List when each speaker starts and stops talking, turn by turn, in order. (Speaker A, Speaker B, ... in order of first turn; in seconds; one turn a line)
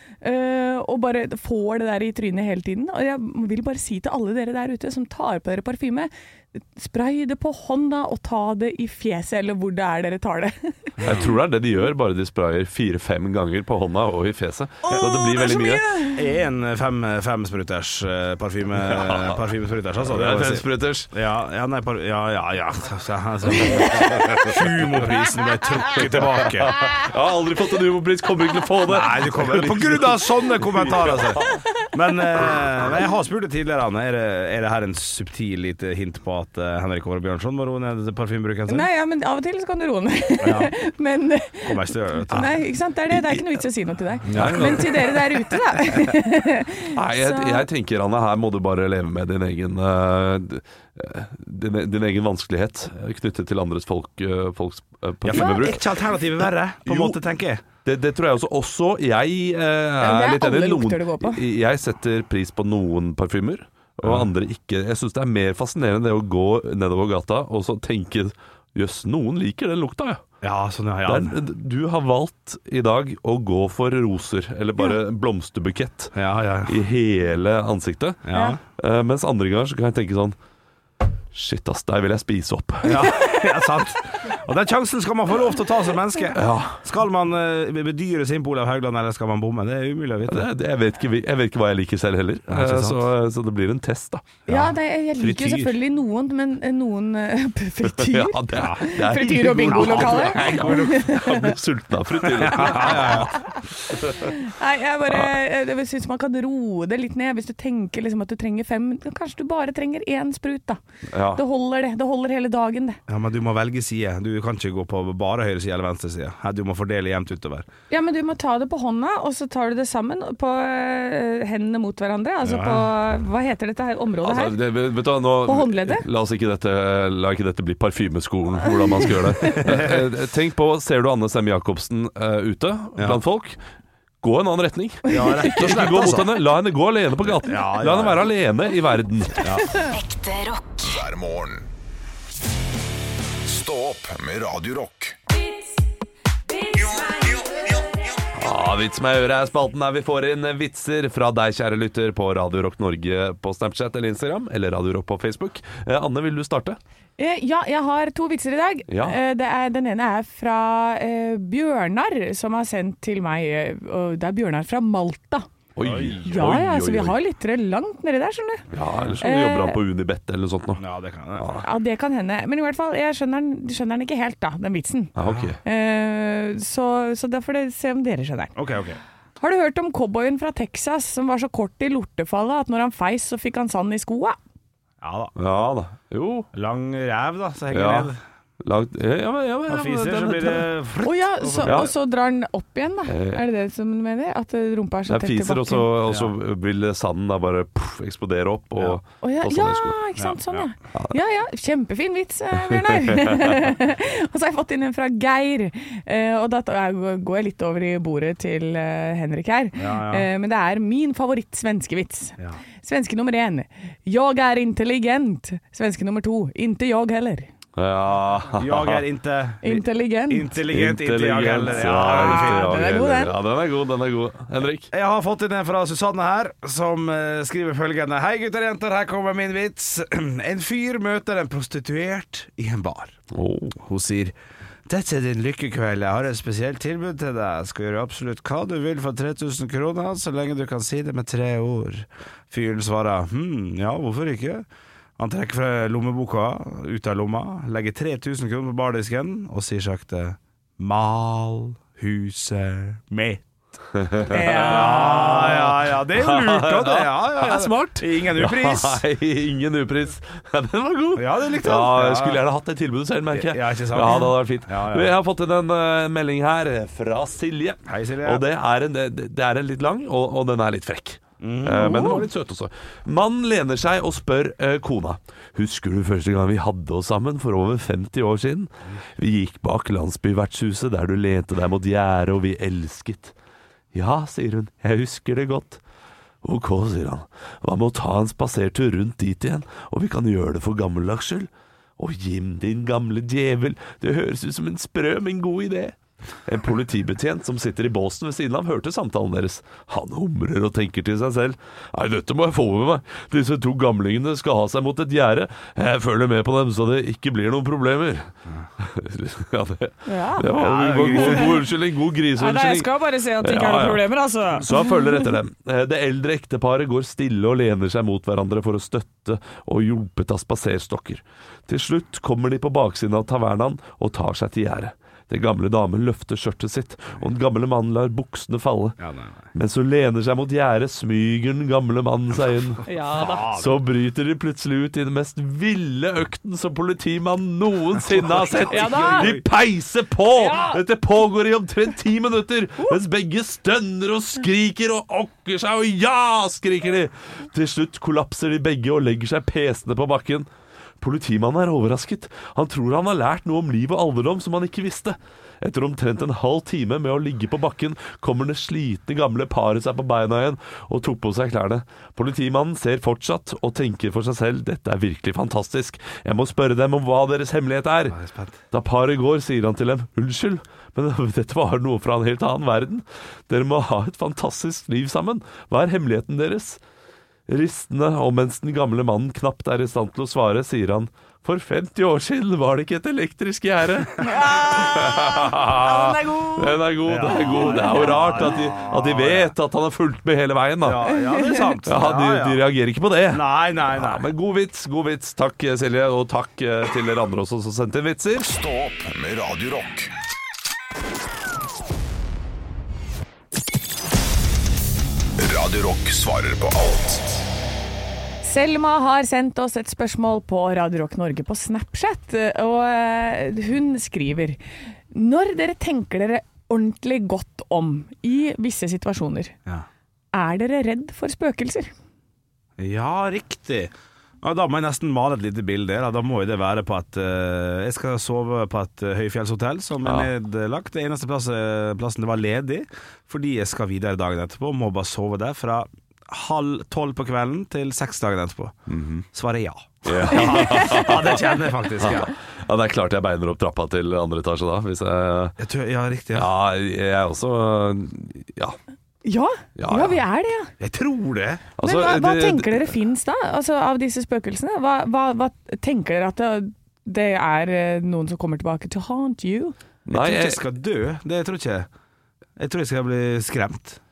Speaker A: 0.2-10.9
Speaker B: 11.0-11.3
Speaker C: 11.0-15.9
Speaker A: 14.8-16.3
Speaker B: 16.1-26.8
Speaker C: 18.9-19.4
Speaker C: 20.0-21.1
Speaker C: 23.6-24.6
Speaker C: 26.0-31.4
Speaker B: 28.9-38.9
Speaker A: 38.7-47.7
Speaker B: 40.4-40.7
Speaker B: 41.6-42.5
Speaker C: 43.1-43.6
Speaker B: 44.3-45.0
Speaker C: 44.3-45.2
Speaker C: 47.0-57.2
Speaker B: 55.2-57.6
Speaker A: 55.3-55.7
Speaker C: 57.8-70.2
Speaker A: 60.0-61.4
Speaker B: 70.4-71.3
Speaker C: 71.0-80.4
Speaker B: 76.2-76.8
Speaker B: 78.3-78.6
Speaker C: 81.3-83.3
Speaker B: 82.8-90.5
Speaker C: 86.3-86.8
Speaker C: 90.3-94.4
Speaker B: 92.5-93.0
Speaker B: 94.5-95.7
Speaker A: 94.5-101.5
Speaker C: 95.3-95.6
Speaker C: 97.8-104.3
Speaker B: 98.5-98.8
Speaker B: 99.7-101.0
Speaker B: 102.3-103.4
Speaker A: 102.7-103.4
Speaker A: 104.1-110.8
Speaker C: 111.1-111.4
Speaker A: 111.3-113.0
Speaker B: 113.1-117.7
Speaker A: 117.9-124.6
Speaker B: 122.4-122.9
Speaker C: 124.2-133.6
Speaker A: 125.5-126.0
Speaker A: 128.7-129.1
Speaker B: 129.4-130.0
Speaker C: 134.2-139.5
Speaker B: 135.1-136.3
Speaker B: 137.3-138.3
Speaker B: 139.4-139.7
Speaker D: 139.7-140.8
Speaker E: 140.8-141.7
Speaker E: 143.4-145.2
Speaker D: 146.8-147.7
Speaker C: 148.3-156.8
Speaker A: 157.2-165.5
Speaker C: 158.9-159.2
Speaker C: 165.8-167.2
Speaker B: 165.8-166.5
Speaker A: 166.2-168.7
Speaker C: 168.7-170.8
Speaker A: 169.2-169.8
Speaker B: 170.8-171.6
Speaker C: 171.4-171.6
Speaker A: 171.6-178.5
Speaker C: 175.2-175.6
Speaker B: 175.2-175.6
Speaker B: 178.6-179.0
Speaker A: 179.4-184.4
Speaker B: 185.0-185.3
Speaker C: 185.4-186.5
Speaker B: 186.5-188.2
Speaker C: 187.7-190.7
Speaker B: 189.7-191.9
Speaker A: 191.0-195.9
Speaker C: 191.6-191.9
Speaker C: 193.1-193.4
Speaker C: 195.1-200.0
Speaker B: 196.1-196.3
Speaker A: 199.2-217.5
Speaker B: 200.2-200.7
Speaker C: 202.7-203.6
Speaker B: 209.8-210.3
Speaker C: 217.8-219.1
Speaker B: 218.6-223.0
Speaker A: 219.6-220.5
Speaker C: 220.7-224.9
Speaker A: 221.9-223.4
Speaker B: 224.9-233.2
Speaker C: 233.3-233.8
Speaker B: 233.8-234.3
Speaker B: 234.9-244.7
Speaker B: 245.2-253.4
Speaker C: 253.9-283.4
Speaker A: 254.3-255.4
Speaker B: 254.6-259.0
Speaker B: 261.2-262.4
Speaker B: 263.3-265.1
Speaker B: 267.9-268.4
Speaker B: 271.4-272.3
Speaker A: 271.8-272.2
Speaker C: 283.9-285.8
Speaker C: 286.4-329.0
Speaker A: 310.1-311.6
Speaker B: 310.6-311.6
Speaker A: 312.3-315.4
Speaker B: 329.0-329.5
Speaker C: 329.5-350.5
Speaker A: 332.9-333.5
Speaker B: 333.1-333.8
Speaker B: 338.0-339.4
Speaker A: 338.7-339.3
Speaker A: 340.4-340.8
Speaker C: 351.0-368.2
Speaker B: 368.1-368.6
Speaker C: 368.7-376.8
Speaker C: 377.5-391.2
Speaker A: 384.2-388.5
Speaker B: 387.1-389.5
Speaker B: 390.8-392.6
Speaker A: 391.3-391.8
Speaker C: 391.8-398.5
Speaker B: 393.3-394.2
Speaker E: 398.4-400.1
Speaker E: 405.4-407.4
Speaker A: 408.4-414.6
Speaker A: 415.1-419.6
Speaker A: 420.3-421.9
Speaker B: 422.8-438.8
Speaker C: 430.0-430.3
Speaker C: 438.9-439.3
Speaker B: 439.3-442.3
Speaker C: 440.1-445.6
Speaker A: 440.6-441.1
Speaker B: 445.6-446.5
Speaker C: 446.3-448.8
Speaker A: 449.2-450.7
Speaker C: 449.8-450.2
Speaker B: 450.8-451.7
Speaker C: 451.8-453.0
Speaker A: 451.8-459.8
Speaker C: 460.1-460.6
Speaker B: 460.1-461.9
Speaker B: 462.6-464.0